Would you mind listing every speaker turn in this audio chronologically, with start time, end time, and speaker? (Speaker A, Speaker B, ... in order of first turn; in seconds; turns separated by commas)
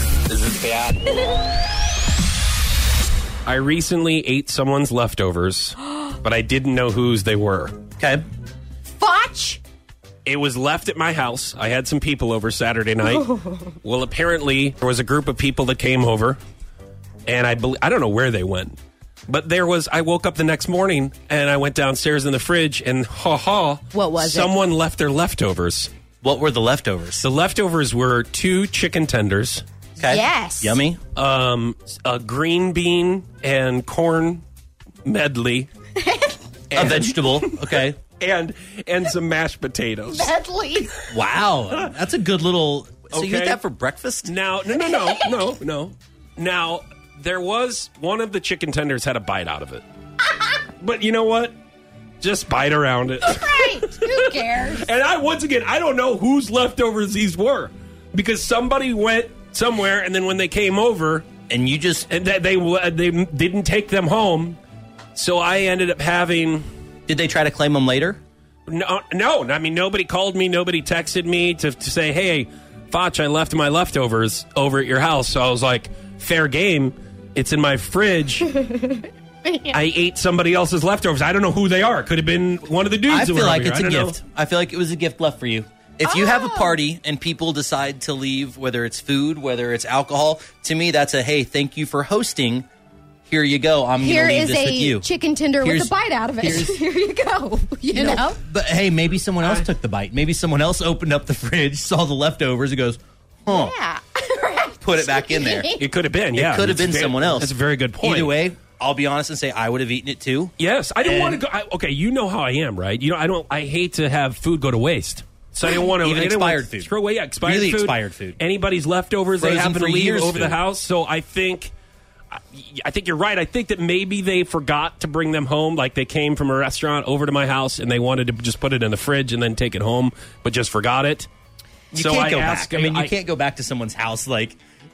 Speaker A: 0.3-1.1, Speaker A: 3.4-7.8, Speaker B: 8.0-8.2, Speaker C: 9.0-9.6, Speaker A: 10.2-16.4, Speaker C: 13.1-13.6, Speaker A: 17.2-18.8, Speaker A: 19.3-25.9, Speaker C: 23.9-24.5, Speaker B: 26.2-27.2, Speaker A: 27.2-29.6, Speaker B: 30.0-31.0, Speaker C: 30.1-30.8, Speaker A: 31.1-34.4, Speaker A: 35.0-35.7, Speaker C: 36.0-36.4, Speaker A: 36.7-40.3, Speaker B: 36.7-38.0, Speaker C: 40.1-41.0, Speaker B: 41.1-44.3, Speaker A: 43.1-43.6, Speaker A: 44.2-49.8, Speaker C: 44.8-45.4, Speaker A: 50.8-51.5, Speaker A: 52.2-61.2, Speaker C: 53.2-54.9, Speaker B: 61.5-62.1, Speaker A: 62.1-64.6, Speaker A: 65.1-66.6, Speaker B: 67.1-68.2, Speaker A: 68.7-78.6, Speaker C: 78.6-79.7, Speaker A: 79.7-84.2, Speaker B: 83.1-92.7, Speaker C: 86.0-86.8, Speaker B: 93.3-95.1, Speaker C: 94.0-98.4, Speaker B: 95.6-96.8, Speaker B: 97.9-103.7, Speaker C: 103.5-105.8, Speaker B: 104.8-105.7, Speaker A: 105.8-108.4, Speaker B: 106.3-111.4, Speaker A: 110.6-121.7, Speaker B: 115.8-116.9, Speaker B: 117.4-118.4, Speaker B: 119.4-120.6, Speaker A: 122.3-131.3, Speaker B: 131.9-134.6, Speaker A: 131.9-133.1